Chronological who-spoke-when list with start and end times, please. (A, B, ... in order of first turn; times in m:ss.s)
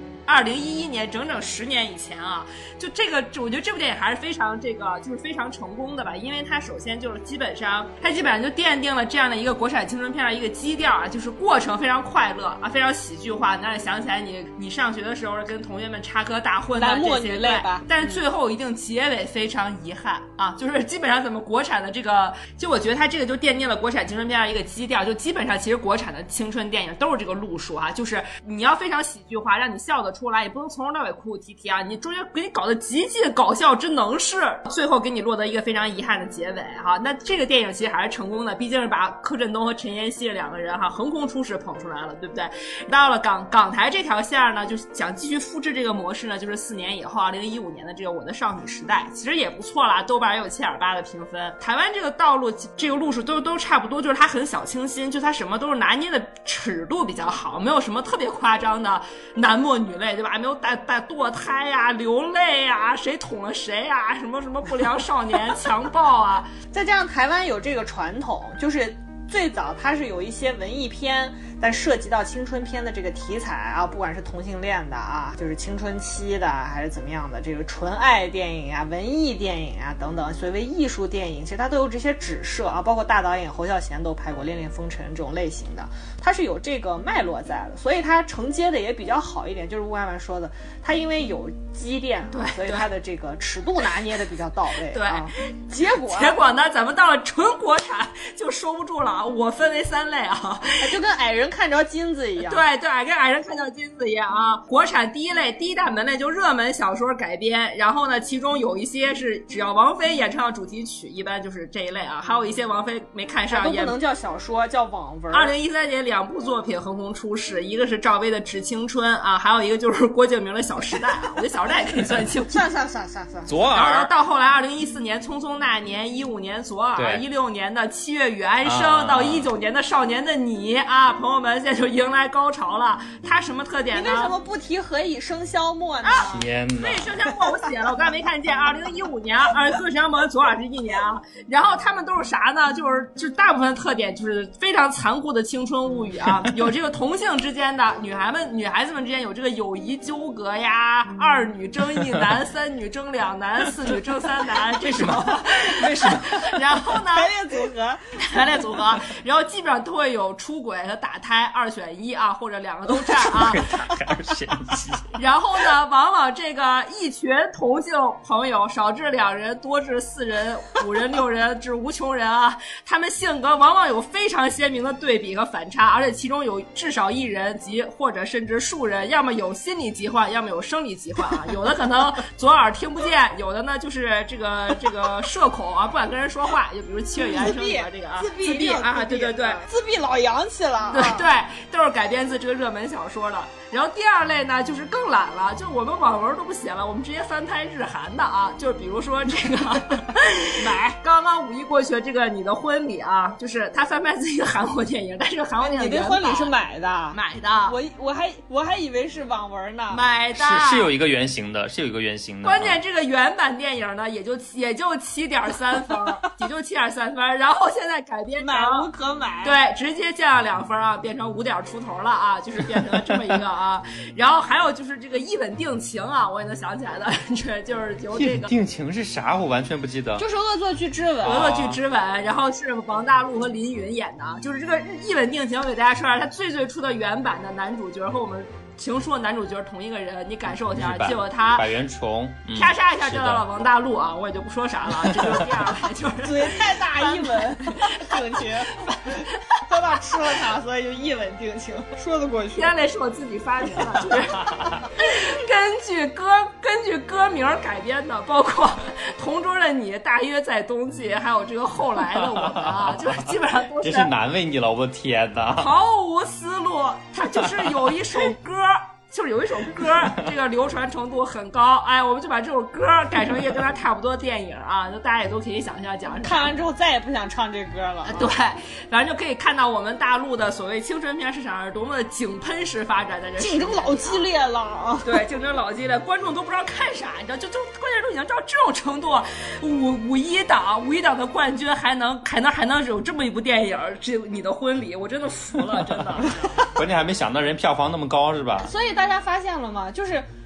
0:00.3-1:06.5 A
0:16.8-0:18.2 B
1:06.7-1:36.4 B
1:32.3-1:32.9 A
1:34.9-1:35.3 A
1:35.8-1:41.0 A
1:40.8-1:42.6 B
1:42.4-1:54.0 A
1:53.5-1:55.6 B
1:55.3-2:02.6 A
2:02.5-2:03.6 B
2:03.5-2:04.1 C
2:03.7-2:14.3 A
2:07.0-2:07.2 C
2:08.6-2:09.5 C
2:13.9-2:16.4 B
2:16.0-2:37.3 A
2:16.3-2:17.1 C
2:34.7-2:36.6 C
2:37.1-2:38.0 B
2:38.2-2:43.8 A
2:43.1-2:45.2 C
2:45.2-3:09.6 A
3:07.2-3:11.2 B
3:10.9-3:26.5 A
3:20.6-3:21.0 B
3:25.6-3:30.0 B
3:27.1-3:27.8 A
3:29.9-3:30.9 A
3:30.4-3:32.8 C
3:32.4-3:38.9 A
3:38.4-3:39.6 B
3:39.4-3:48.5 A
3:48.2-3:50.2 C
3:50.2-3:51.5 B
3:51.2-3:51.8 C
3:51.2-4:01.7 A
4:00.7-4:03.5 C
4:02.5-4:09.7 A
4:05.0-4:05.5 C
4:06.2-4:12.8 B
4:12.6-4:24.1 A
4:22.2-4:23.2 C
4:23.8-4:25.7 C
4:25.6-4:36.5 A
4:36.2-4:38.3 B
4:38.0-4:44.2 A
4:43.4-4:45.2 B
4:45.0-4:56.5 A
4:56.7-4:58.7 C
4:58.6-5:00.3 B